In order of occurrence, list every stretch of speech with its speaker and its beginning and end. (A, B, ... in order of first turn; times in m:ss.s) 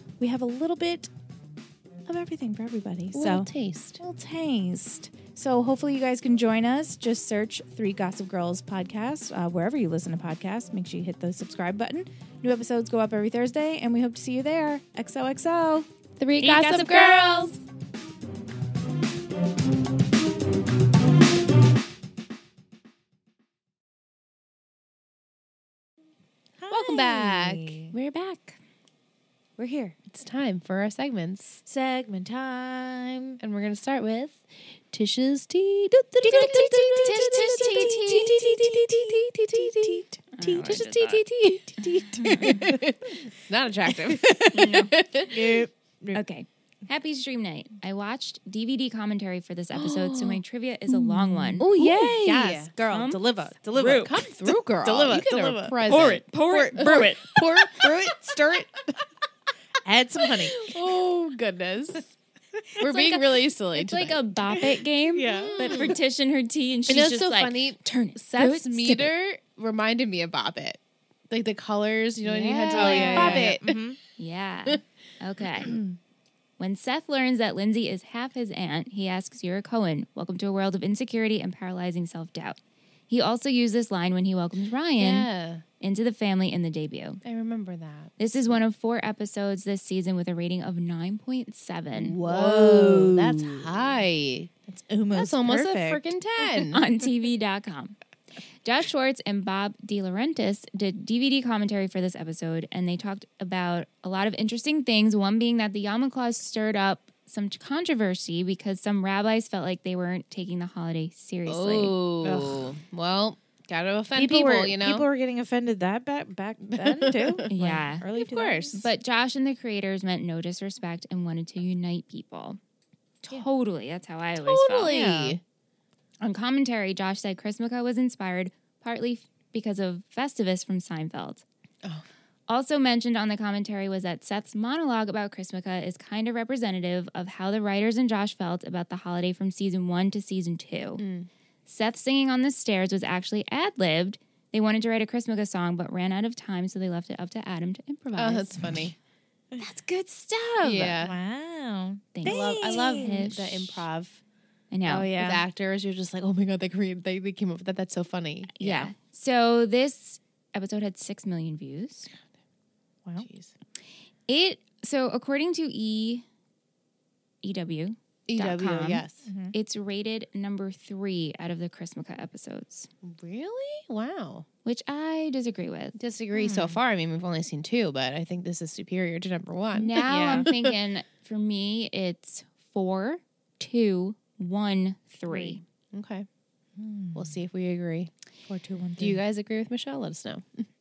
0:00.2-0:01.1 A
0:02.1-0:03.5 A
0:03.1-0:04.0 B
0:04.0-0:15.9 A
0:16.2-0:17.6 B
0:16.4-0:17.6 C
0:26.6-0:27.9 A
0:26.7-0:28.6 B
0:29.6-0:30.0 A
0:30.1-0:31.6 B
0:31.7-0:33.4 A
0:33.4-0:40.1 B
0:36.2-0:38.4 C
0:36.5-0:40.8 A
0:40.4-0:41.2 C
0:40.6-0:45.6 B
0:42.0-0:42.8 A
0:42.1-0:42.7 C
0:43.9-0:44.5 A
0:44.5-0:44.9 C
0:45.3-0:46.2 A
0:46.1-0:51.7 C
0:49.7-0:50.4 B
0:50.9-0:58.7 A
0:51.6-0:52.7 B
0:52.9-0:53.2 C
0:53.8-0:58.8 B
0:53.8-0:54.1 C
0:55.9-0:57.2 C
0:59.8-1:00.7 A
1:00.3-1:02.1 B
1:02.8-1:04.6 B
1:02.8-1:09.1 C
1:05.2-1:06.0 A
1:05.4-1:06.0 B
1:06.9-1:13.8 B
1:12.2-1:13.5 C
1:12.7-1:14.0 A
1:14.2-1:15.8 C
1:16.6-1:22.6 C
1:23.1-1:25.3 C
1:25.0-1:25.6 B
1:25.8-1:27.2 C
1:27.2-1:28.2 B
1:28.2-1:32.2 C
1:31.9-1:34.5 B
1:32.2-1:33.7 A
1:34.7-1:36.1 A
1:35.1-1:36.8 B
1:36.6-1:38.0 C
1:38.6-1:52.0 C
1:51.5-1:55.1 B
1:52.2-1:52.6 A
1:54.2-1:58.8 A
1:56.7-1:57.4 B
1:57.5-1:58.0 C
1:58.2-1:58.8 B
1:58.7-2:02.6 C
2:03.2-2:04.9 C
2:04.4-2:05.4 B
2:04.9-2:05.4 A
2:06.2-2:11.4 C
2:12.5-2:21.0 C
2:21.0-2:21.3 B
2:21.7-2:28.8 C
2:28.2-2:29.0 B
2:29.6-2:31.0 C
2:30.6-2:31.2 B
2:31.0-2:33.3 A
2:32.1-2:33.8 C
2:32.2-2:34.2 B
2:34.7-2:35.1 C
2:34.9-2:35.4 A
2:35.2-2:38.9 B
2:38.6-2:42.1 C
2:43.2-2:43.5 B
2:44.3-2:46.2 C
2:47.4-2:52.9 C
2:48.3-2:49.3 B
2:49.3-2:49.5 A
2:53.0-2:54.5 B
2:54.6-2:56.0 C
2:56.0-3:00.0 B
2:56.3-2:56.8 A
2:59.7-3:05.6 C
3:00.0-3:00.5 A
3:05.3-3:05.6 A
3:05.9-3:06.3 B
3:06.8-3:07.3 A
3:07.1-3:08.1 B
3:08.5-3:09.2 A
3:09.0-3:10.7 B